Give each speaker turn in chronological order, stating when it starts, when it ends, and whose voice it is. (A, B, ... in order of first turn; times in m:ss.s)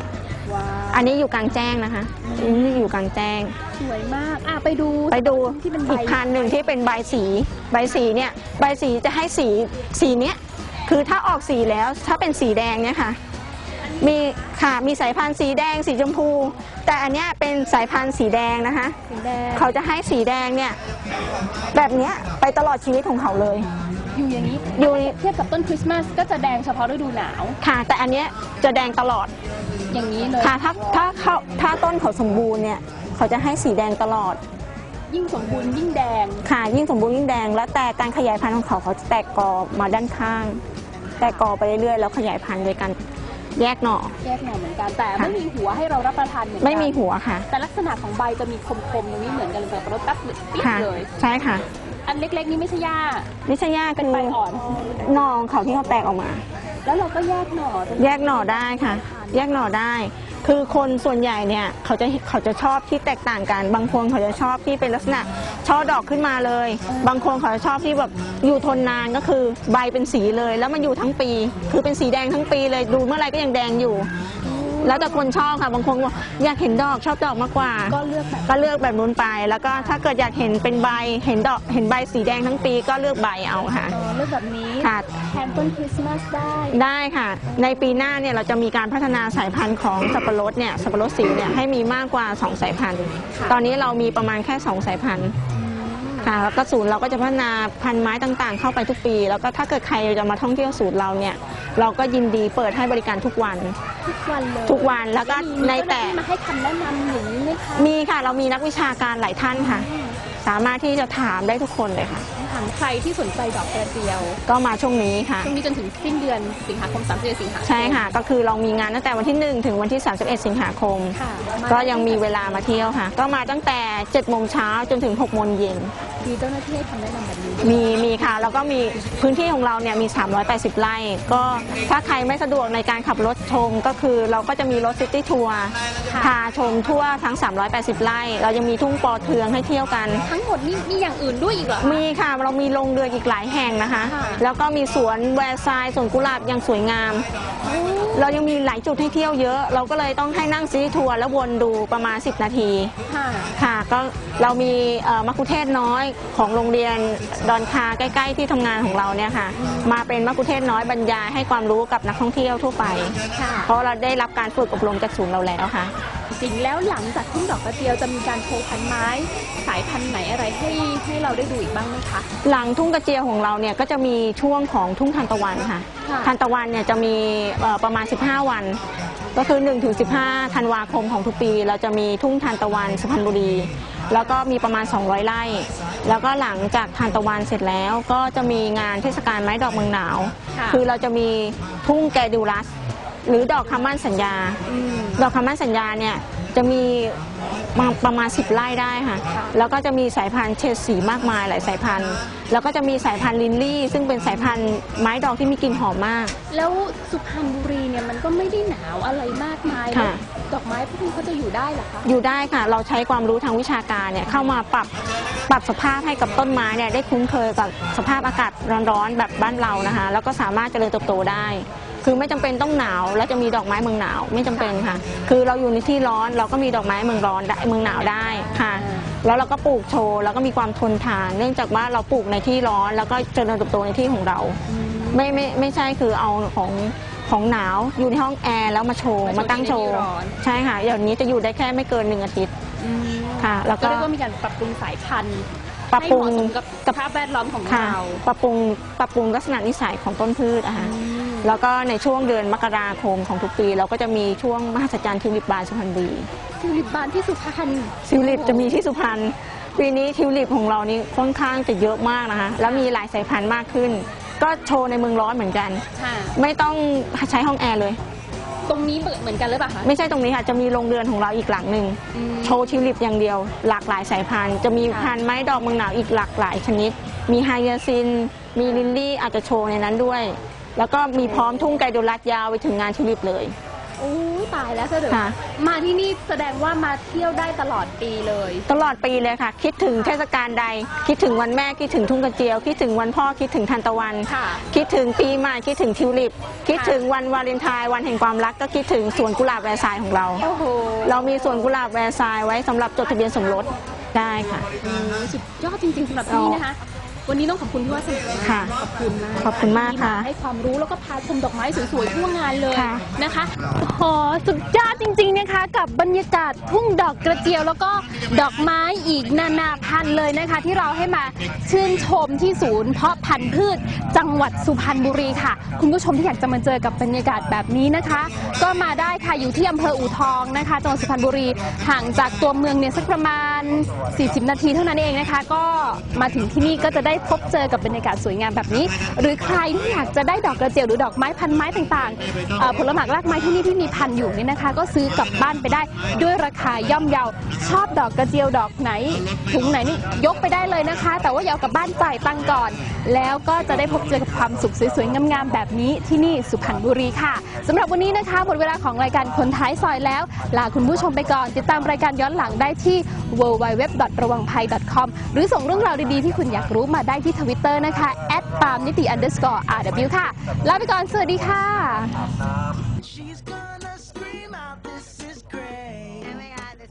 0:00.4-0:01.1 A
0:00.9-0:03.5 B
0:02.2-0:02.8 A
0:03.8-0:06.4 A
0:05.1-0:13.2 B
0:14.0-0:19.0 B
0:19.1-0:19.7 A
0:19.5-0:20.8 B
0:21.7-0:23.7 B
0:24.1-0:27.6 A
0:24.7-0:25.1 B
0:27.6-0:29.3 B
0:29.9-0:30.6 A
0:30.4-0:34.4 B
0:35.1-0:36.4 A
0:36.4-0:40.6 B
0:41.2-0:41.4 A
0:41.2-0:43.0 B
0:43.6-0:44.2 B
0:44.2-0:51.1 A
0:46.6-0:47.5 B
0:50.6-0:51.6 B
0:52.0-0:53.3 A
0:53.4-0:54.4 B
0:54.0-0:54.9 A
0:54.9-0:56.4 B
0:56.8-0:59.4 A
0:58.0-1:14.1 B
1:06.9-1:07.2 A
1:14.4-1:15.3 A
1:14.8-1:18.0 B
1:17.9-1:18.7 A
1:18.5-1:23.9 B
1:19.7-1:20.0 A
1:23.9-1:26.8 A
1:24.8-1:25.1 B
1:26.7-1:35.4 B
1:27.5-1:28.0 A
1:35.5-1:36.3 A
1:36.2-1:43.8 B
1:44.0-1:47.9 A
1:44.6-1:46.2 B
1:47.7-1:49.9 B
1:49.5-1:50.2 A
1:50.4-1:52.3 B
1:52.4-1:54.4 A
1:54.5-1:55.5 B
1:55.4-1:58.1 A
1:57.6-2:05.9 B
2:01.2-2:03.0 A
2:06.2-2:08.1 A
2:07.6-2:20.2 B
2:20.2-2:22.0 A
2:21.8-2:27.3 B
2:24.0-2:24.4 A
2:27.6-2:28.4 A
2:28.1-2:32.9 B
2:33.1-2:33.5 A
2:33.6-2:45.9 B
2:39.5-2:39.9 A
2:43.3-2:43.7 A
2:46.3-2:52.3 A
2:52.4-2:58.8 B
2:56.0-2:56.3 A
2:59.3-3:12.7 B
3:10.5-3:10.8 A
3:13.2-3:14.6 B
3:14.6-3:15.2 A
3:15.2-3:17.2 B
3:17.7-3:26.3 B
3:19.3-3:19.6 A
3:26.5-3:32.1 A
3:29.9-3:30.2 B
3:32.0-3:34.9 B
3:35.5-3:54.6 B
3:44.5-3:44.8 A
3:47.8-3:49.1 A
3:54.7-3:55.4 A
3:55.1-4:02.5 B
3:59.2-4:00.4 A
4:02.8-4:08.2 A
4:03.4-4:04.1 B
4:05.9-4:06.9 B
4:07.7-4:16.3 B
4:10.8-4:11.5 A
4:16.6-4:18.8 A
4:18.0-4:25.8 B
4:22.6-4:22.9 A
4:25.9-4:26.4 A
4:26.4-4:28.0 B
4:28.6-4:29.9 A
4:29.8-4:43.5 B
4:32.1-4:32.8 A
4:34.9-4:35.1 A
4:38.6-4:38.9 A
4:44.0-4:48.7 A
4:45.1-4:45.4 B
4:48.7-5:00.4 B
4:54.3-4:54.6 A
4:56.7-4:57.0 A
5:00.4-5:01.7 A
5:01.0-5:04.6 B
5:04.8-6:12.2 A
5:06.3-5:06.6 B
5:08.4-5:08.7 B
5:09.4-5:10.3 B
5:12.7-5:13.0 B
6:13.0-6:16.5 C